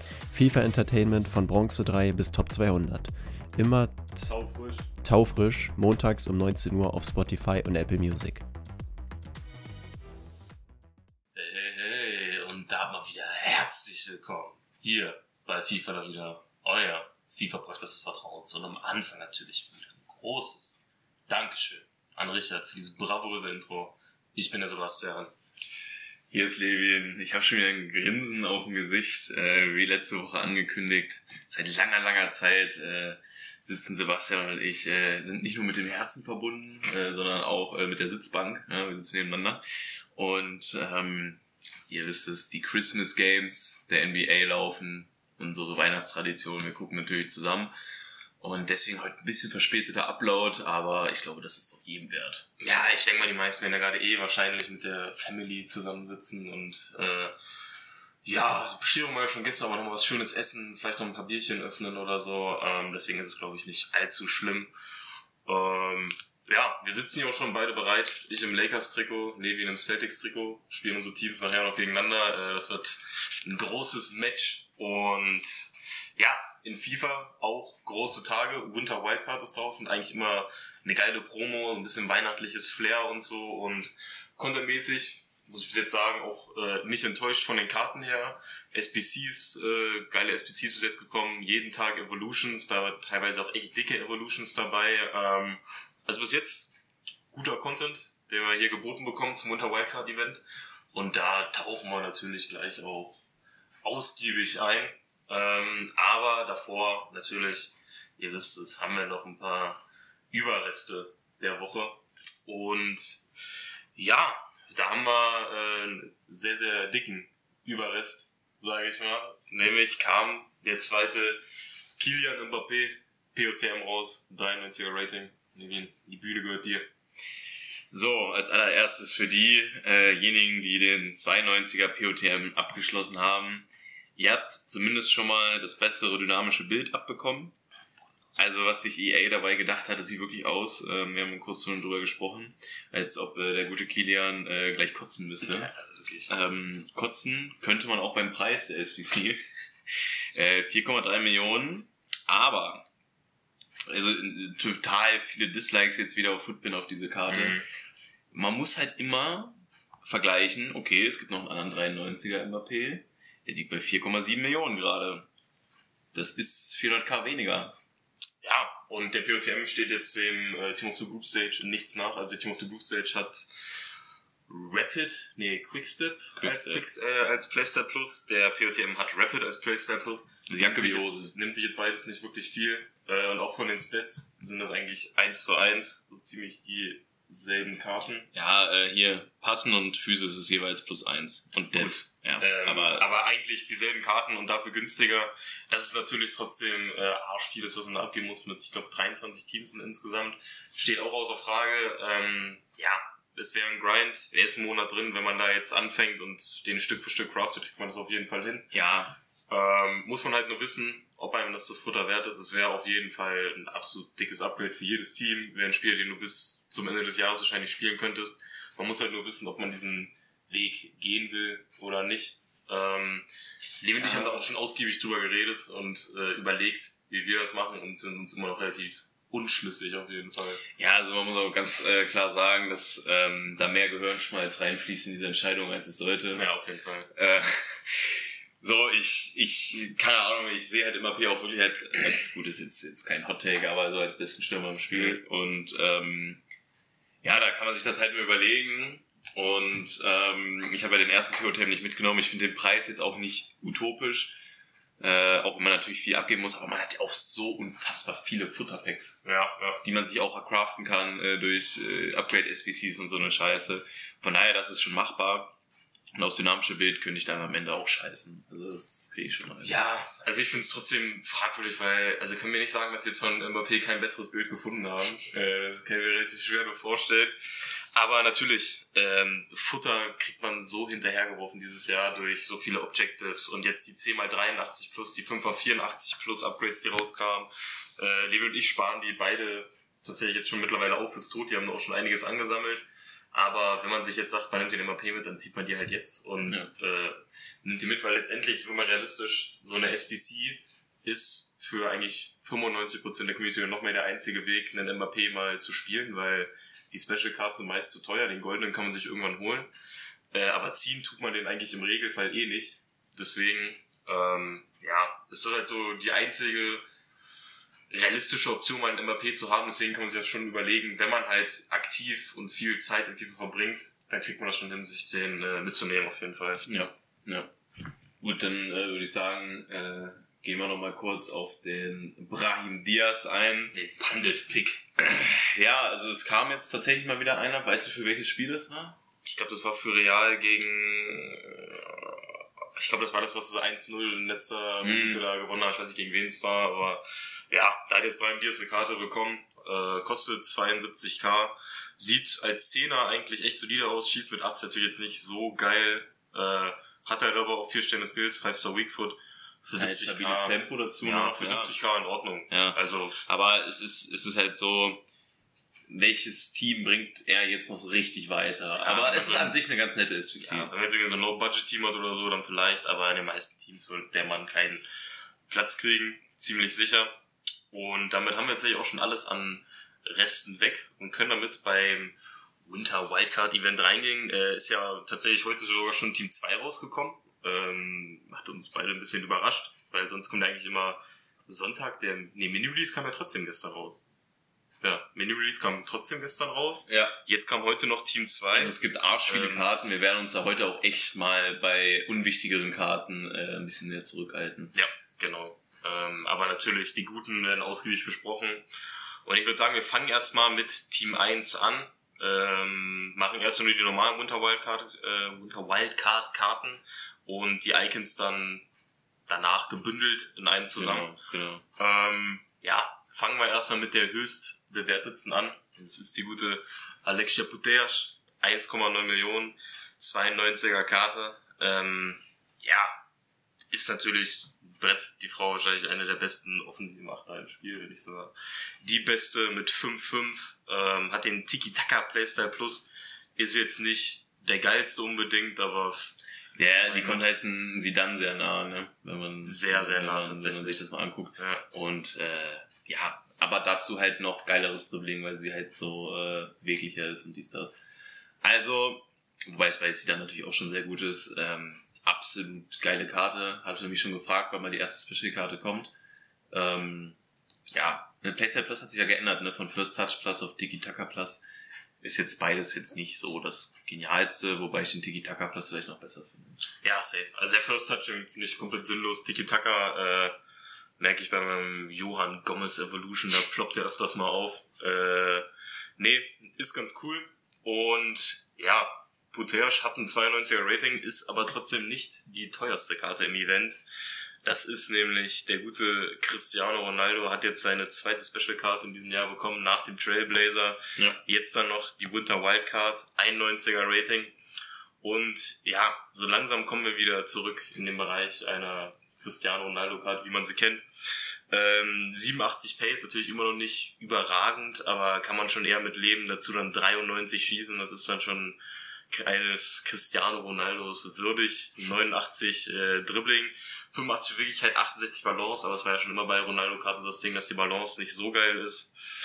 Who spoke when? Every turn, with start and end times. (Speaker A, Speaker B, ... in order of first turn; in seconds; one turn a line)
Speaker A: 0.3-4.3
Speaker B: 4.2-4.9
Speaker A: 5.0-8.4
Speaker B: 11.3-25.3
Speaker C: 26.3-39.6
Speaker C: 40.1-47.7
Speaker C: 48.4-52.5
Speaker B: 52.6-57.3
Speaker B: 58.2-64.7
Speaker B: 65.5-96.7
Speaker B: 97.3-103.2
Speaker B: 103.8-113.2
Speaker B: 113.9-121.4
Speaker B: 122.0-126.9
Speaker C: 127.9-137.6
Speaker C: 138.3-145.7
Speaker B: 145.4-146.3
Speaker C: 146.3-149.4
Speaker C: 150.3-152.8
Speaker C: 153.9-157.6
Speaker B: 157.3-157.6
Speaker C: 158.3-165.3
Speaker C: 166.1-167.8
Speaker B: 168.4-173.7
Speaker B: 174.5-188.3
Speaker C: 176.3-176.8
Speaker C: 180.5-181.3
Speaker C: 188.3-193.1
Speaker B: 191.8-208.7
Speaker C: 208.7-209.2
Speaker B: 209.5-223.2
Speaker B: 223.8-230.6
Speaker C: 224.0-224.4
Speaker C: 230.8-236.5
Speaker B: 236.3-237.1
Speaker C: 237.1-246.4
Speaker B: 244.9-245.2
Speaker C: 247.2-254.3
Speaker C: 255.0-259.2
Speaker B: 259.2-259.8
Speaker C: 259.8-265.5
Speaker C: 266.1-269.7
Speaker B: 269.6-277.4
Speaker B: 277.9-309.7
Speaker B: 310.3-316.8
Speaker B: 317.9-326.6
Speaker C: 326.6-327.5
Speaker C: 328.2-333.7
Speaker B: 333.7-334.9
Speaker C: 335.0-339.0
Speaker B: 339.2-363.2
Speaker C: 344.8-345.2
Speaker C: 359.8-361.8
Speaker C: 362.5-365.0
Speaker C: 365.9-370.7
Speaker B: 368.8-369.6
Speaker B: 370.4-374.8
Speaker B: 375.5-377.1
Speaker B: 377.7-394.0
Speaker B: 394.8-399.7
Speaker C: 396.9-397.1
Speaker C: 398.5-404.7
Speaker B: 404.7-408.6
Speaker B: 409.2-418.6
Speaker B: 419.3-421.1
Speaker C: 420.8-421.6
Speaker B: 421.8-432.9
Speaker B: 433.7-446.1
Speaker C: 446.6-457.8
Speaker B: 446.9-447.3
Speaker B: 449.4-450.8
Speaker B: 451.4-451.6
Speaker C: 458.4-465.9
Speaker C: 466.5-467.2
Speaker C: 467.7-471.4
Speaker C: 472.0-476.6
Speaker B: 476.8-480.4
Speaker B: 481.0-493.8
Speaker B: 494.4-504.3
Speaker B: 505.0-510.9
Speaker B: 511.5-518.6
Speaker B: 519.1-528.9